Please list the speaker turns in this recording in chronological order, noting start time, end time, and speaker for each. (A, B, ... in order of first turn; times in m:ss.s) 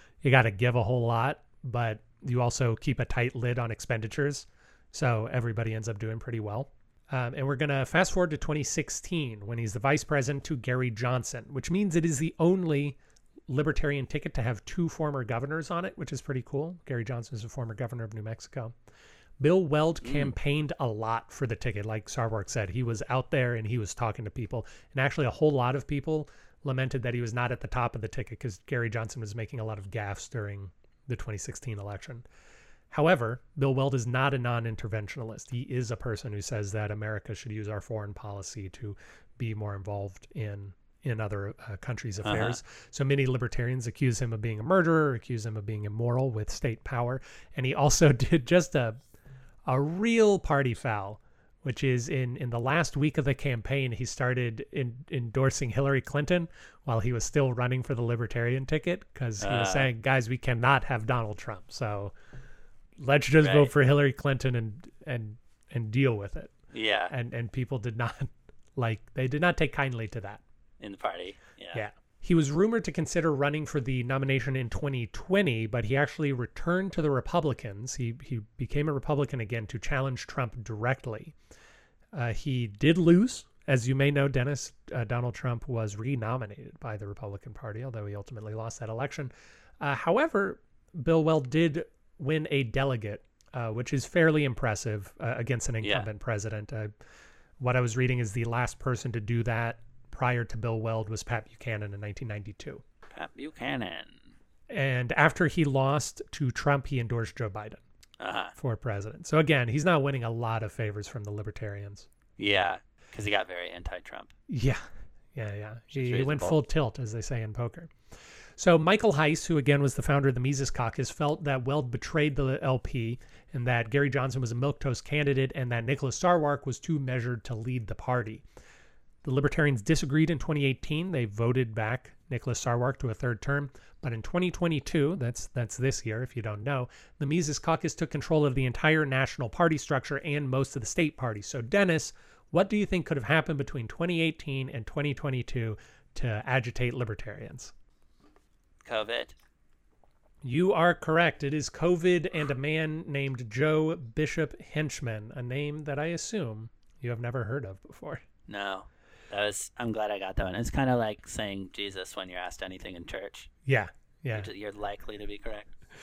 0:00.2-0:13.0 A
0:13.5-0:18.7 A
0:19.4-0:32.2 A
0:20.0-0:20.3 B
0:32.9-0:49.0 A
0:42.2-0:42.6 B
0:49.7-1:02.1 A
0:59.4-0:59.9 B
1:03.0-1:06.5 A
1:03.4-1:03.7 B
1:06.7-1:07.1 B
1:07.1-1:10.4 A
1:10.8-1:11.8 B
1:11.7-1:21.4 A
1:22.1-1:36.9 A
1:35.8-1:36.1 B
1:37.6-1:42.8 A
1:43.1-1:44.2 B
1:44.7-1:47.8 A
1:48.2-1:48.5 B
1:48.6-1:52.1 A
1:52.4-1:54.3 B
1:54.5-1:54.8 A
1:55.3-1:57.9 A
1:55.9-1:56.6 B
1:58.6-2:08.4 A
2:09.2-2:27.7 A
2:28.8-2:29.4 B
2:30.4-2:38.2 A
2:38.5-2:43.5 B
2:43.7-2:44.5 A
2:44.3-2:45.7 B